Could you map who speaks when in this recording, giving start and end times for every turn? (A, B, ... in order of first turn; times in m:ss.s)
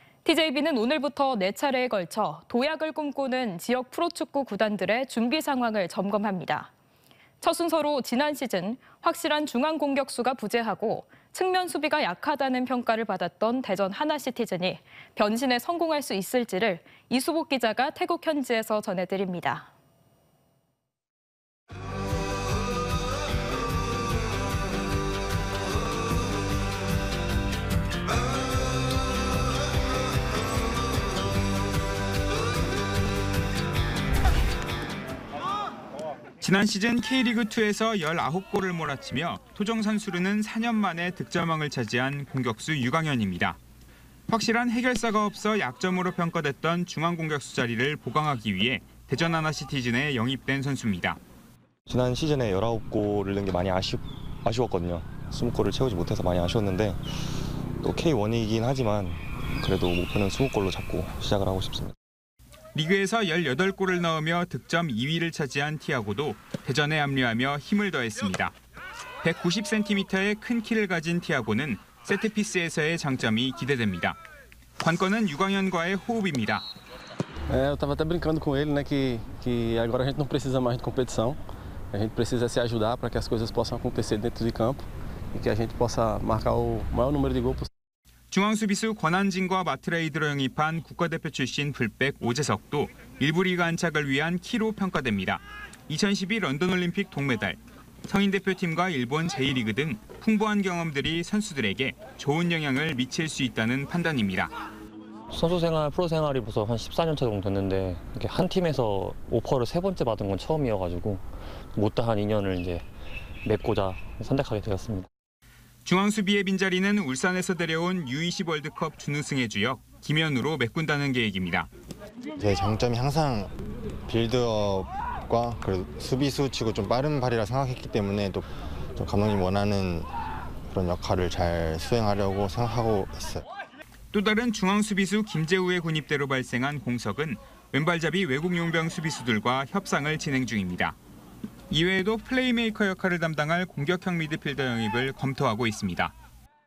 0:00.2-0:06.7 A
0:07.4-0:19.7 A
0:36.4-0:43.6 B
0:44.3-0:51.2 B
0:51.9-0:57.0 C
0:57.8-1:02.0 C
1:02.7-1:08.5 B
1:09.2-1:14.2 B
1:14.8-1:16.7 B
1:17.5-1:21.4 D
1:21.9-1:27.7 D
1:28.3-1:44.5 B
1:45.3-1:52.8 E
1:53.4-1:55.1 E
1:55.8-2:01.7 B
2:02.4-2:03.5 F
2:04.1-2:10.1 F
2:10.7-2:13.4 F
2:14.1-2:21.0 B
2:21.7-2:26.1 B